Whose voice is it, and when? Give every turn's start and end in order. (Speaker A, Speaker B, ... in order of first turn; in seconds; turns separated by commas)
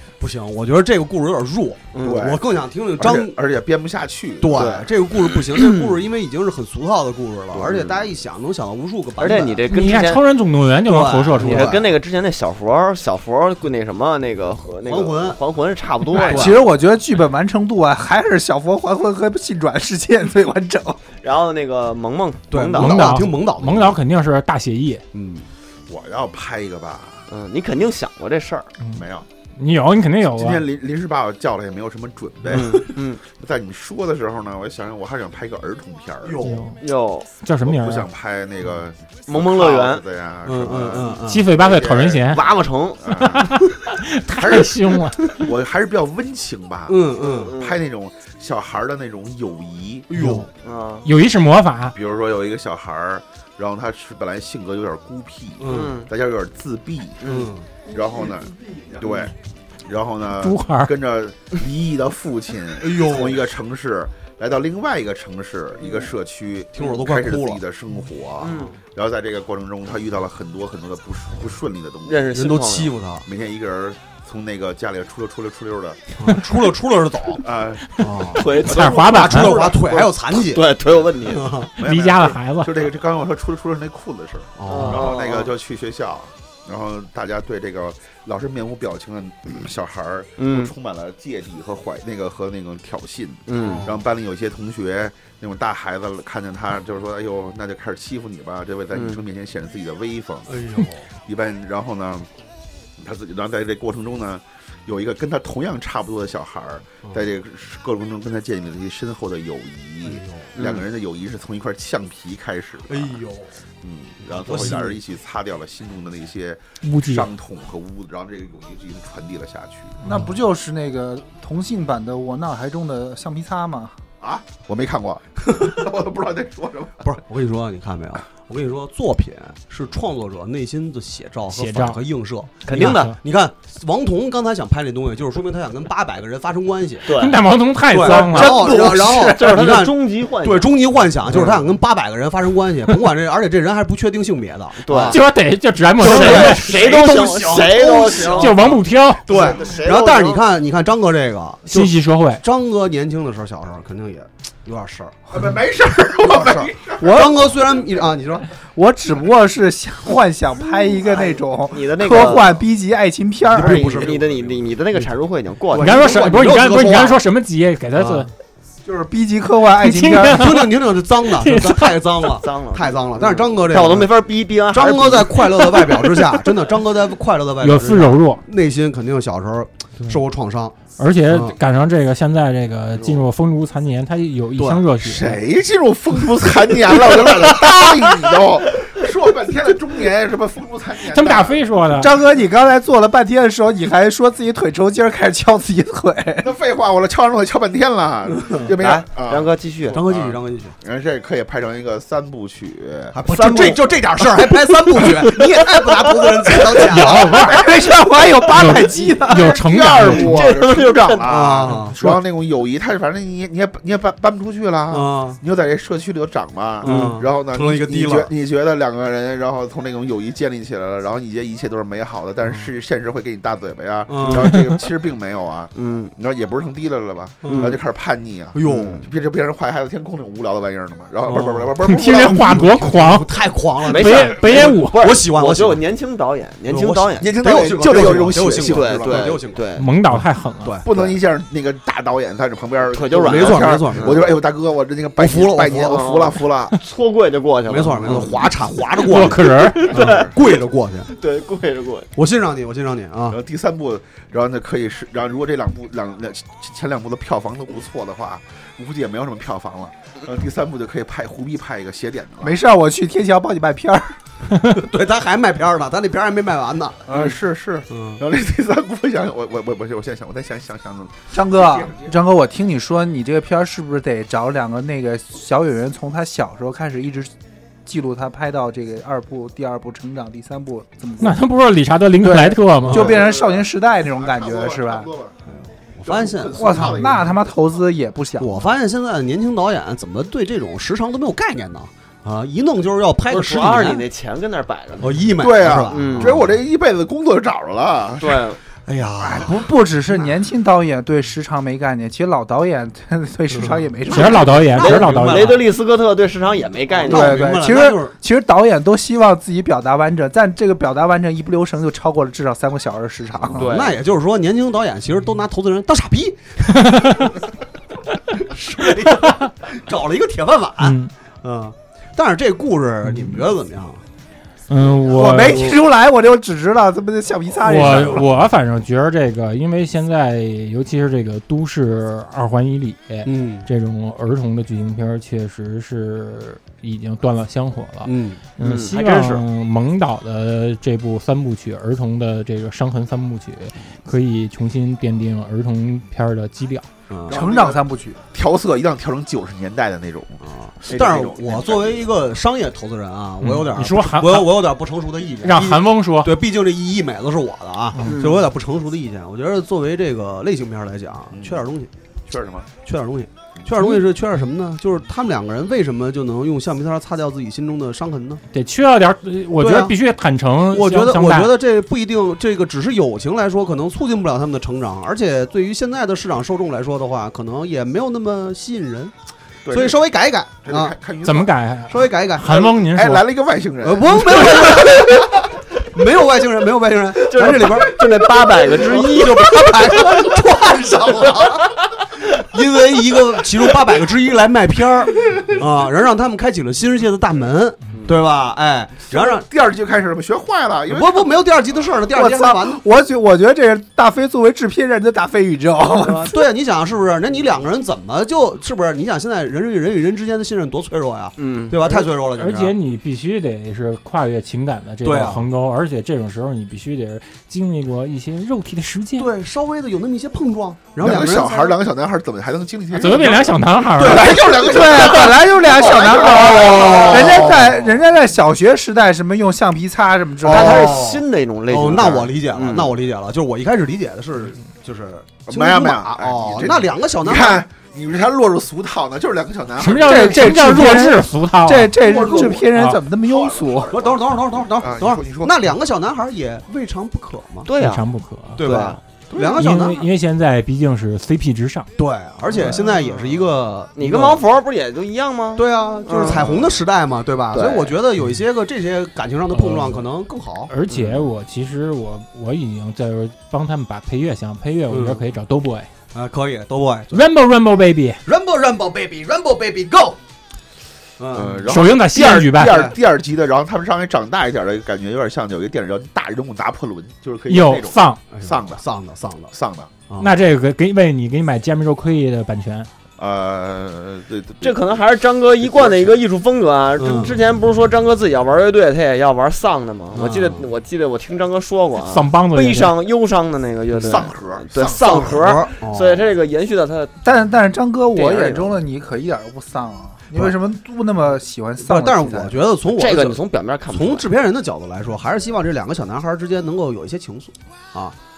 Speaker A: 0.2-3.3, Speaker B: 1.9-2.3, Speaker C: 2.0-2.4, Speaker C: 3.0-4.6, Speaker A: 4.4-9.6, Speaker B: 4.5-6.0, Speaker B: 7.6-8.0, Speaker B: 9.2-10.2, Speaker D: 9.7-11.8, Speaker A: 10.8-11.9, Speaker B: 11.4-16.6, Speaker A: 14.8-15.4, Speaker A: 16.1-16.6, Speaker E: 16.1-21.0, Speaker B: 21.2-23.2, Speaker A: 22.5-24.0, Speaker D: 22.7-25.0, Speaker A: 25.1-25.4, Speaker C: 25.9-27.3, Speaker B: 27.3-28.7, Speaker C: 28.9-29.2, Speaker D: 29.6-30.6, Speaker C: 30.3-36.5, Speaker B: 32.5-33.2, Speaker A: 36.2-36.6, Speaker D: 36.4-36.8, Speaker B: 36.8-37.4, Speaker D: 37.4-38.1, Speaker C: 37.6-42.5, Speaker B: 39.3-40.0, Speaker A: 40.4-41.5, Speaker D: 41.2-42.5, Speaker B: 42.3-43.1, Speaker C: 43.0-43.6, Speaker D: 43.2-45.4, Speaker C: 44.3-50.2, Speaker A: 46.9-47.5, Speaker B: 47.2-47.8, Speaker A: 50.1-50.5, Speaker B: 50.6-51.1, Speaker D: 51.0-52.0, Speaker C: 51.9-57.3, Speaker A: 55.6-55.9, Speaker B: 55.7-56.1, Speaker B: 57.2-57.5, Speaker A: 57.2-57.7, Speaker C: 57.8-59.3, Speaker A: 59.0-59.3, Speaker C: 59.9-72.2, Speaker D: 60.4-60.9, Speaker A: 62.8-63.5, Speaker A: 66.7-67.6, Speaker B: 68.4-68.7, Speaker A: 68.5-68.8, Speaker B: 72.1-72.9, Speaker A: 72.3-73.3, Speaker C: 73.2-76.0, Speaker A: 76.2-77.4, Speaker C: 77.3-78.1, Speaker A: 78.0-78.5, Speaker B: 78.3-81.6, Speaker D: 78.5-79.6, Speaker C: 78.7-80.0, Speaker A: 79.1-80.7, Speaker A: 81.2-81.7, Speaker C: 81.8-100.5, Speaker D: 81.8-82.9, Speaker A: 84.6-85.1, Speaker B: 84.7-85.5, Speaker B: 90.4-90.7, Speaker B: 93.5-93.8, Speaker A: 93.6-94.0, Speaker B: 98.9-99.2, Speaker A: 100.5-101.1, Speaker C: 101.2-102.3, Speaker C: 103.0-113.2, Speaker A: 110.0-110.5, Speaker B: 110.5-110.8, Speaker A: 112.9-113.5, Speaker C: 113.8-120.0, Speaker A: 114.2-115.0, Speaker D: 116.8-117.3, Speaker D: 120.0-120.3, Speaker E: 120.0-124.0, Speaker C: 124.2-127.2, Speaker A: 125.5-125.8, Speaker A: 127.0-137.1, Speaker D: 131.5-132.0, Speaker B: 132.6-133.1, Speaker D: 132.7-133.2, Speaker B: 137.0-137.4, Speaker D: 137.1-138.7, Speaker A: 137.9-145.2, Speaker B: 138.0-140.7, Speaker E: 138.6-139.5, Speaker B: 144.8-145.2, Speaker D: 145.1-146.8, Speaker A: 146.0-148.7, Speaker B: 146.0-150.4, Speaker D: 148.3-149.3, Speaker A: 149.2-155.2, Speaker D: 151.7-152.4, Speaker C: 155.3-157.7, Speaker A: 156.3-158.5, Speaker E: 157.0-157.4, Speaker E: 158.7-164.1, Speaker B: 161.0-162.6, Speaker A: 163.5-165.1, Speaker B: 163.5-166.1, Speaker A: 165.7-167.2, Speaker D: 165.8-168.3, Speaker A: 167.9-168.3, Speaker E: 168.8-170.6, Speaker D: 169.8-172.0, Speaker A: 170.3-174.1, Speaker B: 172.4-176.0, Speaker A: 174.7-180.8, Speaker D: 177.6-178.4, Speaker D: 181.0-185.4, Speaker A: 181.3-181.6, Speaker B: 183.0-183.2, Speaker A: 184.6-184.8, Speaker C: 185.0-191.7, Speaker D: 191.1-192.2, Speaker E: 192.0-196.5, Speaker C: 196.4-203.2, Speaker A: 198.3-198.7, Speaker B: 198.8-200.0, Speaker A: 199.9-200.7, Speaker A: 203.1-207.5, Speaker B: 203.3-206.7, Speaker D: 206.7-207.8, Speaker E: 207.4-209.6, Speaker D: 208.5-210.5, Speaker C: 209.3-233.1, Speaker B: 210.2-211.3, Speaker A: 211.2-212.2, Speaker A: 214.9-215.4, Speaker A: 216.8-218.3, Speaker A: 224.1-224.5, Speaker D: 224.5-224.8, Speaker B: 225.7-226.1, Speaker A: 227.4-227.8, Speaker B: 227.5-227.8, Speaker A: 228.5-229.0, Speaker B: 228.6-229.1, Speaker A: 231.2-235.8, Speaker D: 231.8-233.3, Speaker D: 233.8-235.1, Speaker B: 233.8-239.9, Speaker A: 236.7-241.2, Speaker C: 237.2-239.4, Speaker D: 239.7-240.8, Speaker C: 240.8-246.8, Speaker B: 242.9-244.3, Speaker A: 243.2-244.4, Speaker A: 245.2-246.1, Speaker B: 245.9-248.5, Speaker A: 247.7-251.1, Speaker D: 248.9-250.1, Speaker B: 249.4-250.5, Speaker B: 251.1-252.1, Speaker A: 252.2-253.4, Speaker C: 253.3-262.6, Speaker E: 262.4-264.2, Speaker A: 264.6-267.1, Speaker C: 267.1-272.1, Speaker A: 267.9-268.2, Speaker E: 271.3-277.3, Speaker E: 277.9-281.4, Speaker D: 281.2-283.1, Speaker E: 282.2-285.1, Speaker C: 282.9-285.4, Speaker A: 285.6-287.1, Speaker C: 286.0-287.4, Speaker E: 286.6-288.7, Speaker A: 288.4-294.0, Speaker B: 293.3-295.3, Speaker A: 295.0-296.6, Speaker C: 295.4-298.5, Speaker B: 295.9-296.4, Speaker B: 298.2-298.6, Speaker A: 298.9-299.6, Speaker E: 299.2-304.6, Speaker A: 303.5-305.6, Speaker D: 304.1-305.6, Speaker B: 304.1-307.5, Speaker A: 306.9-308.1, Speaker E: 307.0-313.7, Speaker B: 313.5-314.0, Speaker A: 313.5-317.3, Speaker D: 316.8-317.3, Speaker A: 318.4-324.0, Speaker D: 320.8-321.1, Speaker D: 323.1-323.5, Speaker D: 324.7-325.8, Speaker E: 325.1-328.3, Speaker D: 327.6-346.9, Speaker A: 333.2-333.7, Speaker A: 338.0-338.4, Speaker B: 338.6-339.4, Speaker A: 347.1-347.4, Speaker C: 347.3-352.1, Speaker E: 347.3-348.2, Speaker A: 350.4-361.9, Speaker D: 353.4-354.6, Speaker D: 355.4-356.3, Speaker D: 357.9-358.2, Speaker B: 358.0-358.4, Speaker C: 361.3-361.6, Speaker C: 362.3-362.7, Speaker A: 362.8-368.4, Speaker D: 368.5-371.5, Speaker A: 369.6-369.9, Speaker A: 370.7-379.1, Speaker C: 379.6-380.0, Speaker A: 379.7-380.9, Speaker C: 380.6-381.6, Speaker D: 381.2-383.2, Speaker A: 381.9-382.5, Speaker C: 382.4-385.2, Speaker A: 383.8-391.7, Speaker B: 387.2-390.4, Speaker A: 392.3-399.4, Speaker B: 397.9-398.2, Speaker C: 399.1-401.4, Speaker A: 400.9-402.8, Speaker E: 402.1-406.4, Speaker A: 405.9-412.7, Speaker B: 411.4-412.0, Speaker D: 412.3-419.3, Speaker A: 415.0-415.5, Speaker A: 419.2-421.8, Speaker C: 421.0-427.6, Speaker D: 422.9-424.6, Speaker A: 424.0-424.6, Speaker E: 424.6-430.9, Speaker A: 426.4-427.8, Speaker B: 426.8-427.2, Speaker A: 430.4-437.6, Speaker B: 430.5-432.9, Speaker C: 431.9-432.2, Speaker C: 435.4-440.8, Speaker D: 439.8-442.1, Speaker E: 440.0-443.9, Speaker C: 442.0-445.6, Speaker A: 443.9-447.7, Speaker B: 447.6-448.1, Speaker D: 447.8-448.6, Speaker A: 448.6-450.1, Speaker B: 448.6-449.0, Speaker C: 449.3-449.6, Speaker D: 449.5-451.9, Speaker A: 452.0-454.4, Speaker B: 452.6-453.4, Speaker B: 453.9-456.5, Speaker A: 455.6-460.7, Speaker C: 456.2-456.8, Speaker B: 457.5-457.9, Speaker D: 459.5-460.0, Speaker D: 460.7-465.9, Speaker A: 464.9-465.2, Speaker A: 466.1-467.3, Speaker D: 467.1-468.2, Speaker A: 468.2-470.2, Speaker A: 471.2-471.8, Speaker C: 471.3-478.8, Speaker D: 471.7-472.9, Speaker A: 472.6-472.9, Speaker D: 477.5-478.2, Speaker A: 478.3-479.5, Speaker C: 479.5-479.9, Speaker A: 480.1-480.4, Speaker D: 480.2-482.9, Speaker C: 483.2-485.0, Speaker B: 484.6-497.1, Speaker C: 485.6-486.2, Speaker A: 487.0-487.4, Speaker A: 490.1-490.7, Speaker D: 492.0-492.9, Speaker A: 493.9-494.3, Speaker C: 494.0-495.4, Speaker A: 495.0-496.3, Speaker E: 497.2-502.6, Speaker B: 498.1-498.8, Speaker A: 501.8-508.1, Speaker B: 502.9-504.3